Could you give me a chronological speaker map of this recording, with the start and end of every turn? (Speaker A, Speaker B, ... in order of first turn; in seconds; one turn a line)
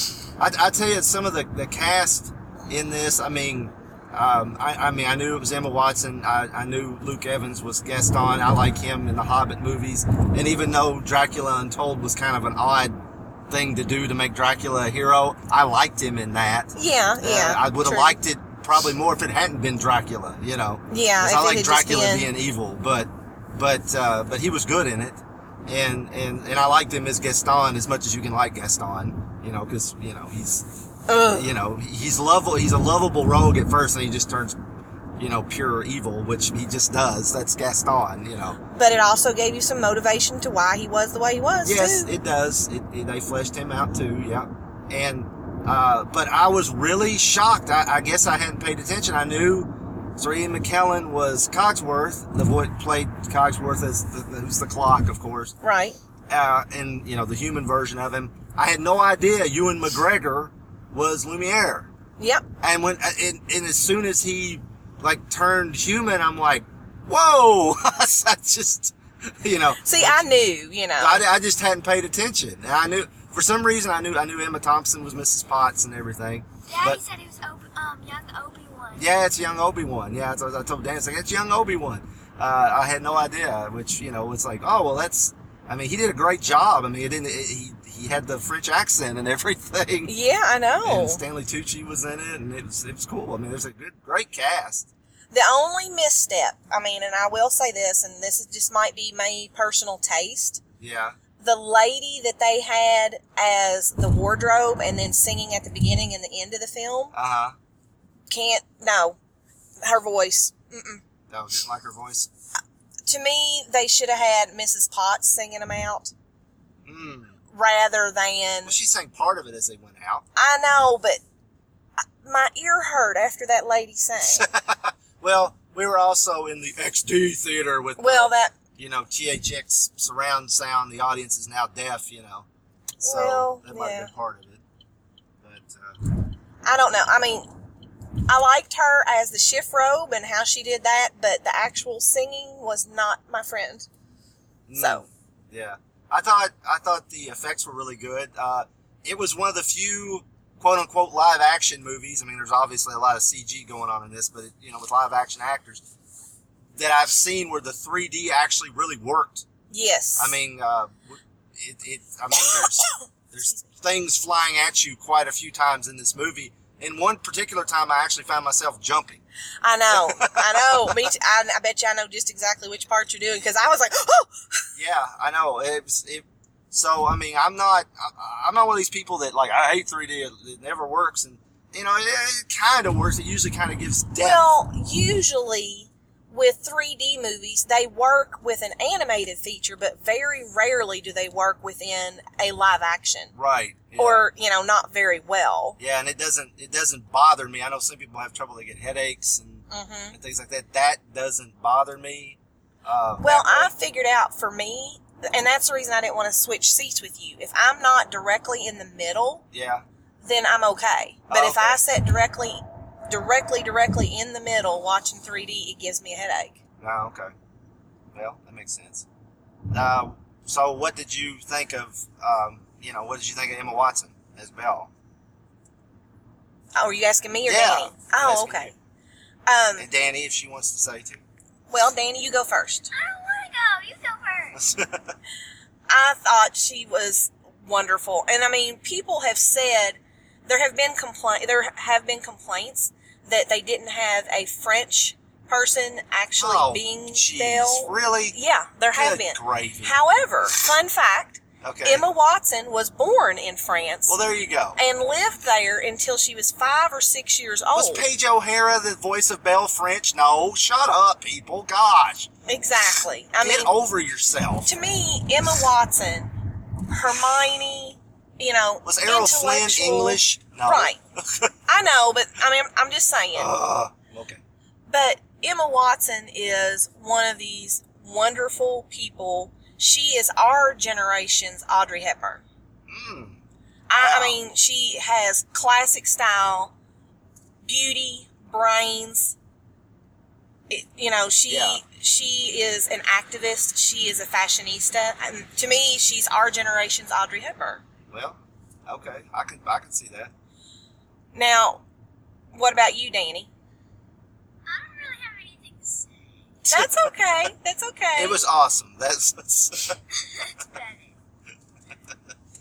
Speaker A: 0.4-30.7
Speaker B: 16.8-18.2
Speaker B: 20.9-22.3
Speaker B: 31.1-31.5
Speaker A: 31.3-34.6
Speaker A: 35.2-38.6
Speaker B: 38.7-42.1
Speaker A: 41.6-55.5
Speaker B: 55.6-56.0
Speaker A: 56.3-61.9
Speaker B: 62.2-62.4
Speaker A: 62.6-70.3
Speaker B: 69.8-71.2
Speaker A: 71.0-77.0
Speaker C: 76.7-79.0
Speaker A: 79.0-90.1
Speaker B: 90.0-91.2
Speaker A: 90.8-94.9
Speaker B: 95.3-100.6
Speaker A: 100.8-101.2
Speaker B: 101.4-107.1
Speaker A: 107.1-107.5
Speaker B: 108.3-109.2
Speaker B: 109.8-111.0
Speaker A: 111.3-112.3
Speaker B: 113.0-116.1
Speaker A: 116.8-117.3
Speaker B: 117.5-118.7
Speaker A: 118.7-120.2
Speaker B: 120.3-121.2
Speaker B: 122.2-124.5
Speaker A: 124.2-132.5
Speaker B: 128.0-128.5
Speaker B: 133.0-134.1
Speaker A: 133.0-134.6
Speaker A: 135.4-136.0
Speaker B: 136.6-137.5
Speaker B: 138.3-143.9
Speaker A: 144.7-155.8
Speaker B: 144.8-145.0
Speaker A: 156.8-159.4
Speaker B: 159.7-160.3
Speaker A: 160.2-169.2
Speaker B: 169.6-174.7
Speaker A: 170.0-171.1
Speaker A: 174.8-184.5
Speaker B: 184.2-193.3
Speaker A: 193.3-194.3
Speaker B: 193.9-195.8
Speaker A: 195.8-203.7
Speaker B: 199.7-200.2
Speaker B: 203.2-209.4
Speaker A: 209.5-209.8
Speaker B: 210.2-216.6
Speaker A: 211.3-211.8
Speaker A: 216.8-217.3
Speaker A: 218.1-219.1
Speaker A: 219.7-224.9
Speaker B: 226.7-228.7
Speaker A: 227.4-228.7
Speaker B: 229.5-229.9
Speaker A: 229.8-231.2
Speaker B: 231.7-232.9
Speaker C: 232.9-234.6
Speaker A: 234.5-235.2
Speaker B: 235.9-254.2
Speaker A: 246.4-248.4
Speaker A: 248.9-249.9
Speaker A: 251.6-252.0
Speaker A: 254.1-254.8
Speaker B: 254.8-258.1
Speaker A: 257.7-262.3
Speaker B: 262.5-263.7
Speaker A: 263.4-264.7
Speaker B: 264.6-271.0
Speaker A: 268.8-271.5
Speaker B: 271.7-273.5
Speaker A: 273.3-274.4
Speaker B: 274.9-282.4
Speaker A: 282.9-283.4
Speaker B: 283.9-286.7
Speaker A: 283.9-284.4
Speaker B: 287.6-289.4
Speaker B: 290.7-297.8
Speaker A: 291.5-291.8
Speaker A: 298.1-300.3
Speaker B: 301.3-301.8
Speaker B: 302.5-303.5
Speaker C: 304.6-306.1
Speaker A: 306.6-307.1
Speaker B: 306.7-308.4
Speaker A: 308.1-310.0
Speaker C: 310.4-311.1